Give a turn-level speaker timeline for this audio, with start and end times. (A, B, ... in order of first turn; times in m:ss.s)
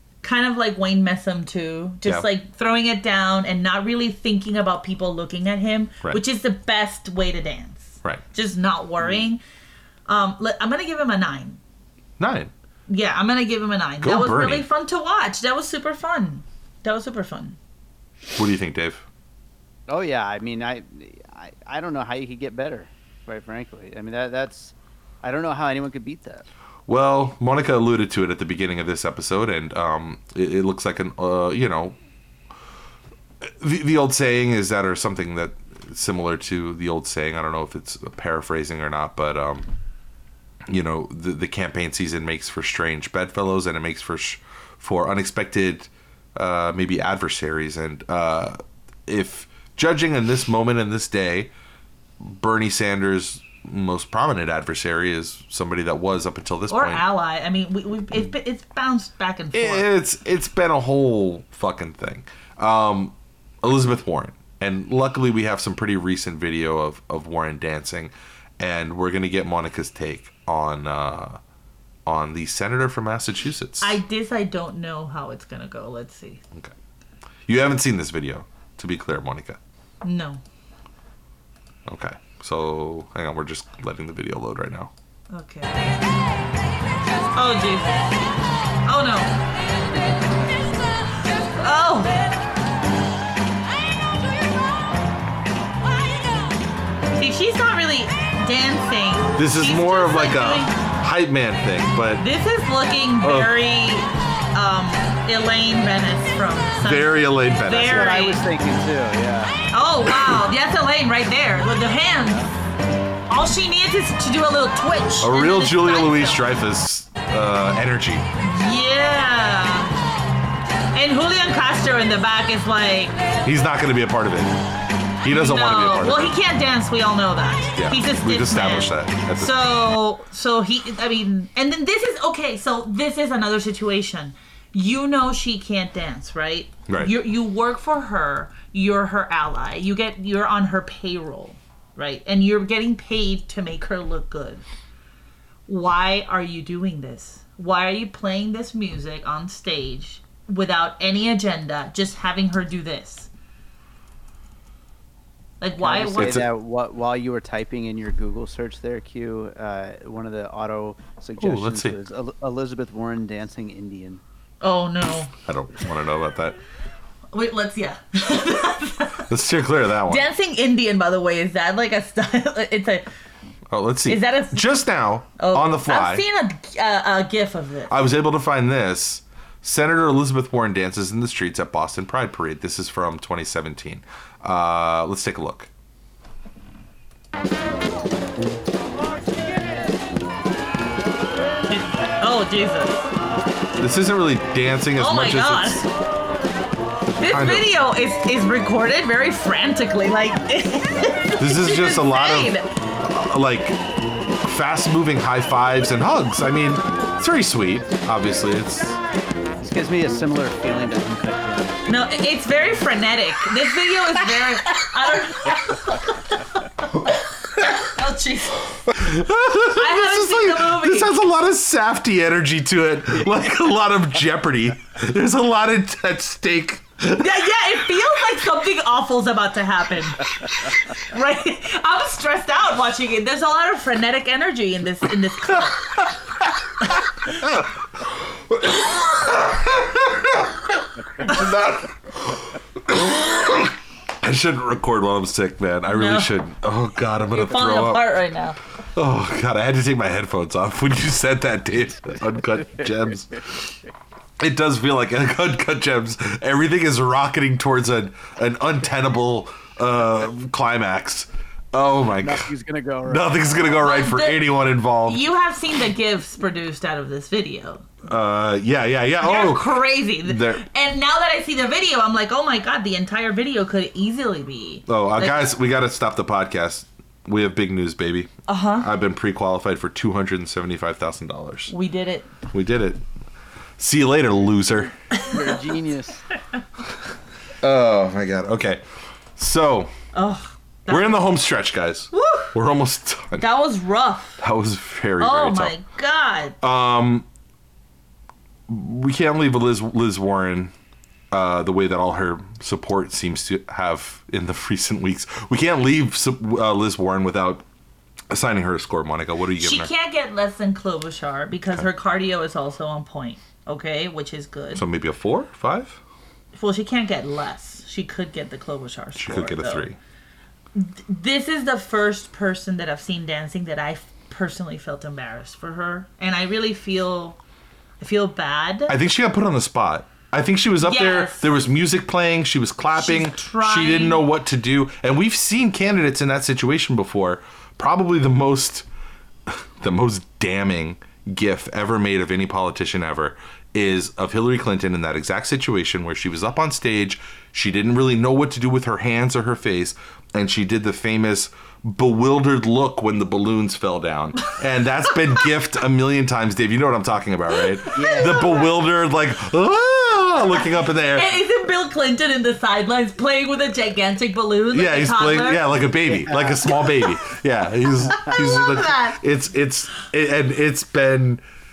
0:00.2-0:09.4 A
0:10.1-0:11.6 A
0:12.2-0:12.5 B
0:12.9-0:17.6 A
0:14.0-0:14.7 B
0:18.4-0:19.1 B
0:19.9-0:26.5 C
0:26.9-0:32.0 B
0:33.4-0:39.7 B
0:40.7-0:51.5 B
0:52.2-0:57.0 B
0:56.7-0:59.9 A
0:59.5-1:11.4 B
1:12.1-1:14.0 B
1:13.8-1:16.4 A
1:17.5-1:19.6 B
1:20.0-1:20.4 A
1:21.9-1:24.9 B
1:25.3-1:26.0 A
1:27.4-1:28.1 A
1:28.8-1:29.4 A
1:31.6-1:32.3 A
1:37.2-1:40.8 A
1:39.4-1:42.2 B
1:42.2-1:48.4 A
1:43.2-1:43.5 B
1:46.8-1:48.2 B
1:47.7-1:49.6 C
1:49.7-1:52.5 A
1:52.1-1:52.5 C
1:53.3-1:56.5 A
1:55.2-1:58.3 B
1:58.4-1:59.9 A
2:00.9-2:03.2 A
2:03.4-2:04.6 B
2:05.2-2:06.4 B
2:05.3-2:24.6 A
2:07.8-2:09.7 B
2:16.9-2:17.2 B
2:25.7-2:33.3 A
2:35.6-2:36.4 A
2:35.8-2:44.2 C
2:36.2-2:36.5 B
2:41.4-2:42.0 B
2:44.6-2:45.3 A
2:45.4-2:46.6 B
2:47.3-2:49.3 A
2:49.3-2:50.3 B
2:50.1-2:53.1 A
2:53.7-2:56.2 B
2:54.1-2:54.8 A
2:55.4-2:57.9 A
2:57.9-3:05.7 B
3:11.7-3:13.1 A
3:13.8-3:15.9 B
3:15.0-3:15.9 A
3:17.2-3:22.7 A
3:17.2-3:17.7 B
3:21.4-3:23.8 B
3:24.4-3:29.0 B
3:29.6-3:31.8 C
3:31.9-3:38.7 A
3:38.9-3:47.3 B
3:39.7-3:41.1 A
3:47.1-3:55.9 A
3:57.4-4:08.1 B
4:05.9-4:06.3 A
4:07.3-4:08.6 A
4:09.0-4:13.7 B
4:14.4-4:22.5 B
4:22.2-4:23.9 C
4:23.0-4:25.2 B
4:23.8-4:24.5 A
4:25.0-4:27.9 A
4:28.0-4:30.6 B
4:29.2-4:35.5 A
4:34.9-4:41.7 B
4:38.5-4:38.9 A
4:41.7-4:42.3 A
4:42.5-4:43.0 B
4:43.8-4:45.0 B
4:45.2-4:46.3 C
4:47.6-4:48.8 B
4:49.4-4:49.9 B
4:50.1-4:51.3 A
4:50.9-4:53.5 B
4:52.1-4:52.5 A
4:53.4-4:54.4 A
4:54.4-4:55.8 B
4:55.2-4:56.6 A
4:56.6-4:57.3 B
4:58.7-5:00.7 B
5:01.3-5:07.6 B
5:08.3-5:09.9 B
5:09.6-5:14.8 A
5:14.7-5:16.0 B
5:16.5-5:19.9 A
5:19.2-5:20.0 B
5:20.8-5:27.4 A
5:28.0-5:29.0 A
5:28.9-5:38.9 B
5:30.8-5:31.5 A
5:32.9-5:34.2 A
5:39.5-6:01.4 B
5:57.9-5:58.5 A
5:57.9-5:58.8 C
6:01.1-6:05.8 A
6:04.7-6:11.4 B
6:08.2-6:09.2 A